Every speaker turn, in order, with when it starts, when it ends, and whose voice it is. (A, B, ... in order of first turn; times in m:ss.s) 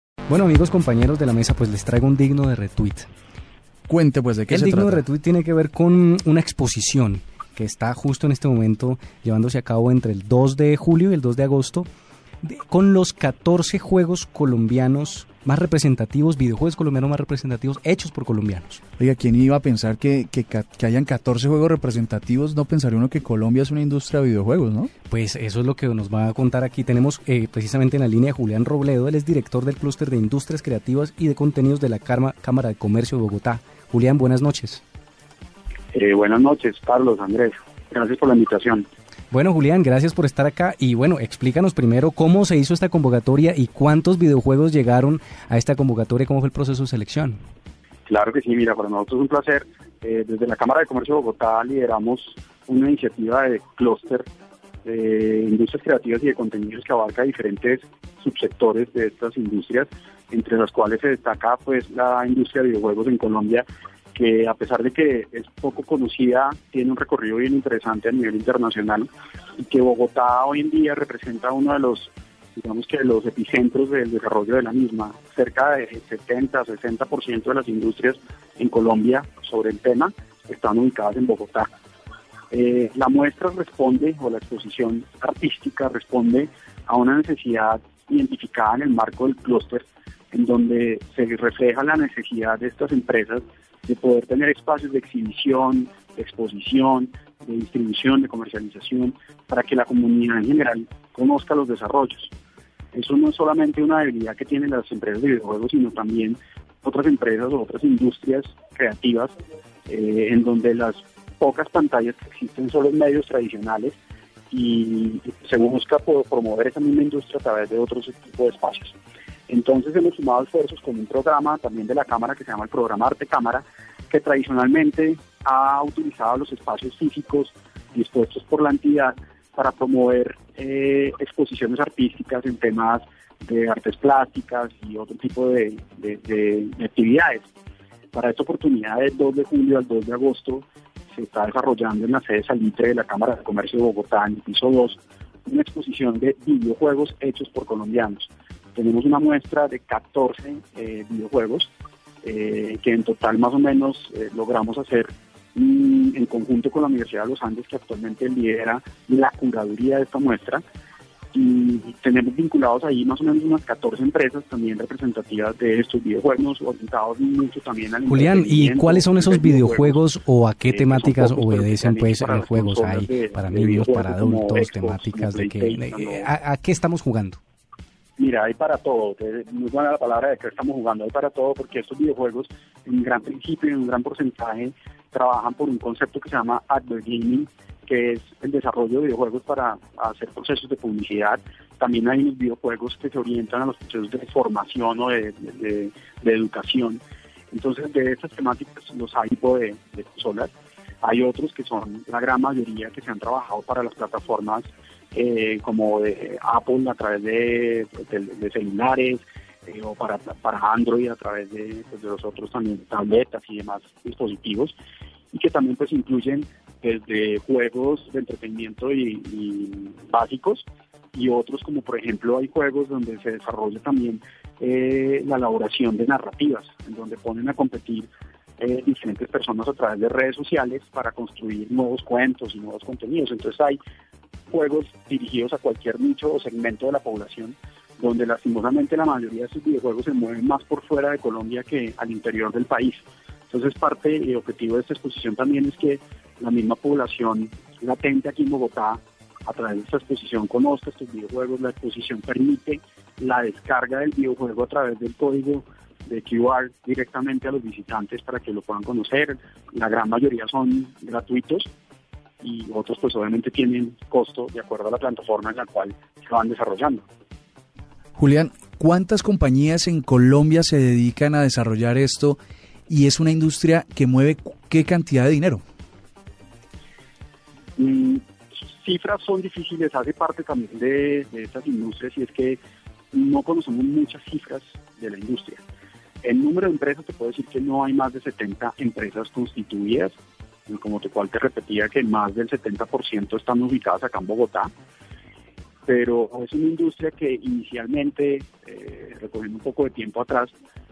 0:00.3-0:03.1 A
0:03.9-0:05.0 B
0:04.5-0:11.9 A
0:12.4-0:18.8 A
0:19.0-0:24.9 B
0:25.1-0:34.8 A
0:35.9-0:38.8 C
0:39.3-0:47.4 A
0:48.0-0:54.3 C
0:54.8-1:21.7 C
1:22.5-1:42.3 C
1:42.9-1:49.3 C
1:49.9-1:54.0 C
1:54.5-1:59.0 C
1:59.5-2:17.5 C
2:18.1-2:31.7 C
2:32.2-2:40.6 C
2:41.3-2:50.0 C
2:48.1-2:57.4 A
2:50.7-2:56.3 C
2:58.2-3:20.5 C
3:21.0-3:34.7 C
3:35.3-3:48.1 C
3:48.6-3:53.8 C
3:54.5-4:21.7 C
4:22.4-4:27.0 C
4:28.1-4:32.4 B
4:32.9-4:35.6 B
4:37.8-4:42.6 C
4:43.1-4:45.6 C
4:46.2-4:50.2 C
4:50.7-4:54.7 C
4:55.9-5:00.5 C